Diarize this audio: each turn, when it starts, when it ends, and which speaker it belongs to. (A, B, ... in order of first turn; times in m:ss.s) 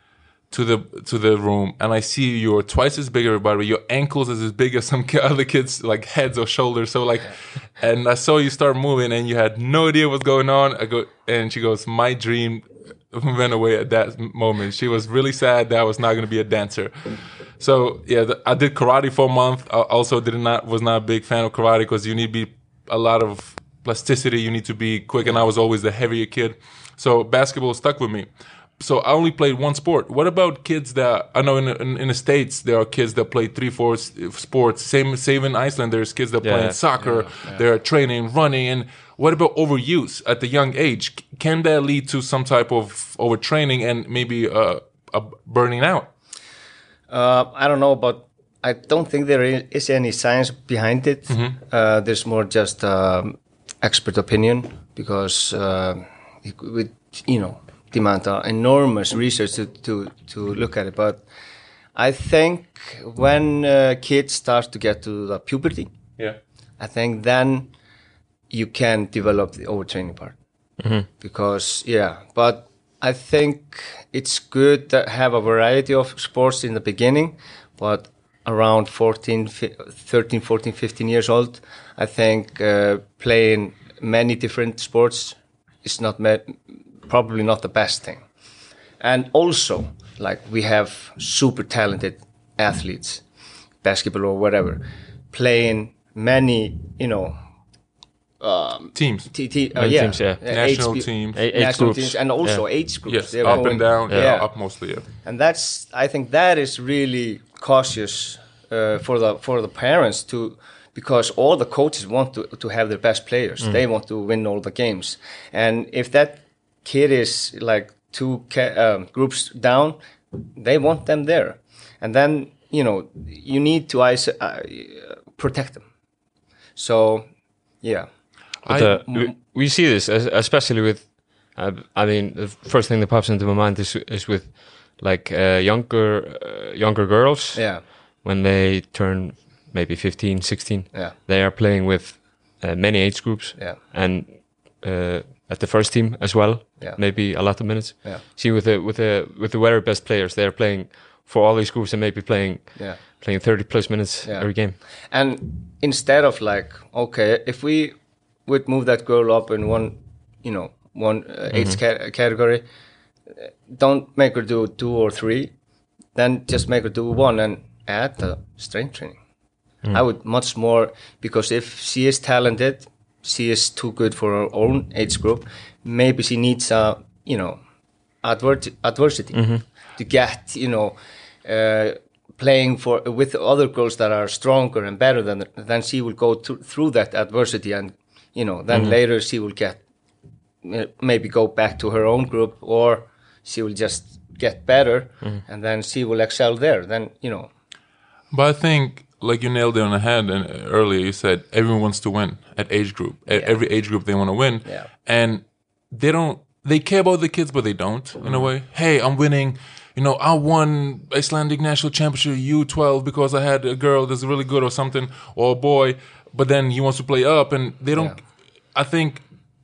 0:00.5-0:46.1 A
0:36.4-0:36.8 B
0:37.0-0:37.6 C
0:47.1-1:01.2 C
0:51.3-0:51.6 A
1:02.0-1:05.9 C
1:06.8-1:07.7 C
1:08.5-1:10.4 C
1:10.8-1:11.1 B
1:11.2-1:28.2 C
1:29.0-1:33.2 C
1:33.8-1:37.4 C
1:38.4-1:44.5 C
1:39.0-1:39.3 A
1:39.8-1:40.5 B
1:40.5-1:41.4 A
1:41.3-1:42.7 B
1:43.1-1:45.1 A
1:43.4-1:44.3 B
1:45.2-2:05.9 C
2:06.8-2:07.3 C
2:07.8-2:08.1 C
2:08.6-2:09.1 A
2:08.7-2:34.8 B
2:09.0-2:09.3 C
2:17.5-2:17.8 C
2:34.2-2:34.5 C
2:35.1-2:38.0 C
2:38.5-2:42.6 C
2:43.7-2:45.5 C
2:46.2-2:49.2 C
2:49.9-2:57.6 C
2:58.2-3:09.8 C
2:59.3-2:59.6 B
3:10.6-3:17.5 C
3:18.3-3:38.2 A
3:23.3-3:23.6 C
3:38.7-3:39.2 A